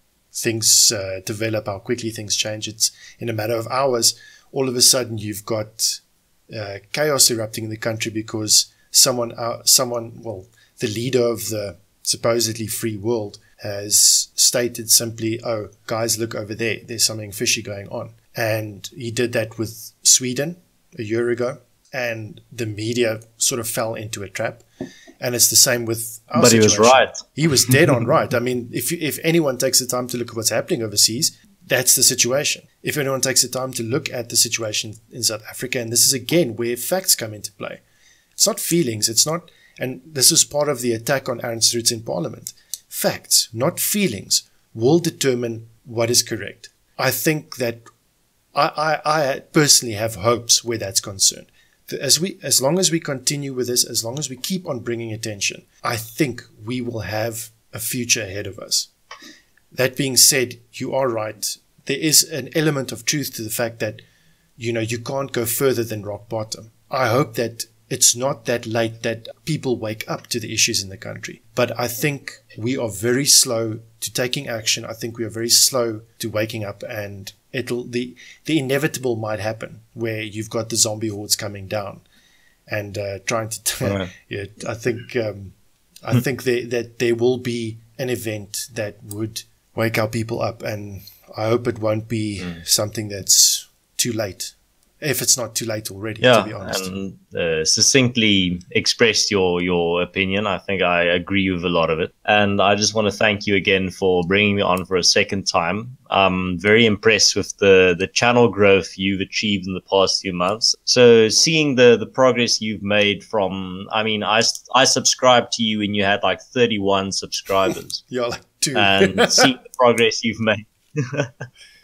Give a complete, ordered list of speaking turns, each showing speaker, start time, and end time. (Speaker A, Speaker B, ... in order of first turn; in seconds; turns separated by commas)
Speaker A: 0.3-24.6, Speaker A: 25.2-37.8, Speaker B: 26.4-27.2, Speaker A: 38.4-47.8, Speaker A: 48.5-58.9, Speaker A: 59.7-64.0, Speaker A: 64.6-82.0, Speaker A: 82.7-85.5, Speaker B: 83.8-84.1, Speaker A: 86.0-96.9, Speaker B: 96.2-118.0, Speaker A: 118.1-119.5, Speaker B: 118.7-121.3